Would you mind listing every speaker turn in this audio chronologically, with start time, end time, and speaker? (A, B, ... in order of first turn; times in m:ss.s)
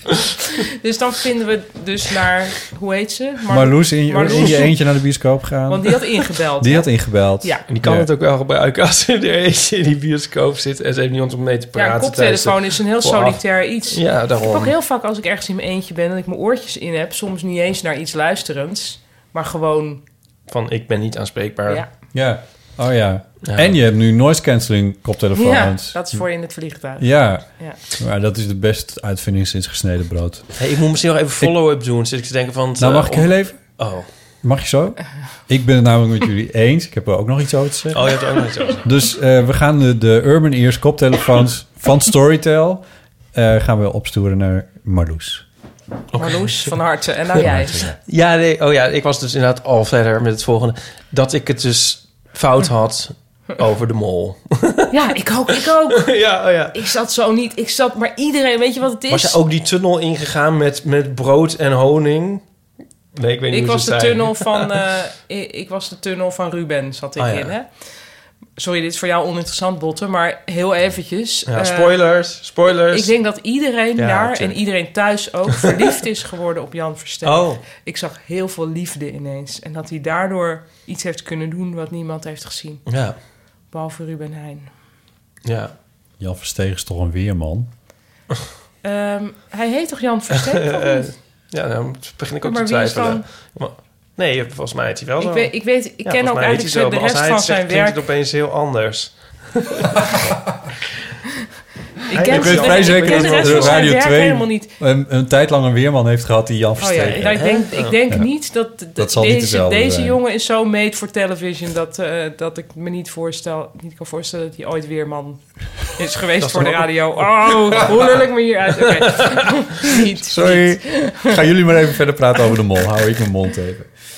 0:00.8-0:04.7 A
0:03.5-0:06.0 B
0:05.7-0:07.6 A
0:06.6-0:08.1 B
0:07.7-0:14.7 C
0:11.7-0:20.0 A
0:20.5-0:21.8 C
0:22.1-0:26.2 B
0:23.4-0:23.7 C
0:25.3-0:27.8 A
0:27.0-0:30.6 B
0:30.6-0:34.1 C
0:32.8-0:33.8 B
0:34.4-0:45.4 B
0:37.9-0:38.9 C
0:46.1-0:46.5 C
0:46.2-0:47.8 A
0:47.4-0:48.0 B
0:48.0-0:54.9 C
0:54.9-0:59.4 A
0:56.0-0:56.8 C
0:59.1-1:02.4 C
1:03.1-1:04.7 C
1:03.5-1:07.9 A
1:07.2-1:07.5 C
1:08.6-1:11.9 A
1:11.5-1:13.1 C
1:12.9-1:22.8 A
1:14.0-1:14.6 C
1:17.2-1:17.6 C
1:22.9-1:23.2 C
1:23.7-1:24.7 A
1:25.4-1:25.7 C
1:26.2-1:27.7 B
1:28.8-1:31.1 A
1:30.5-1:40.2 C
1:32.4-1:33.3 A
1:35.2-1:38.0 A
1:42.1-1:44.7 A
1:42.1-1:43.9 C
1:42.2-1:47.4 B
1:46.8-2:01.4 A
1:47.1-1:48.0 C
1:48.9-1:50.2 B
1:56.4-1:58.2 C
2:00.2-2:03.9 B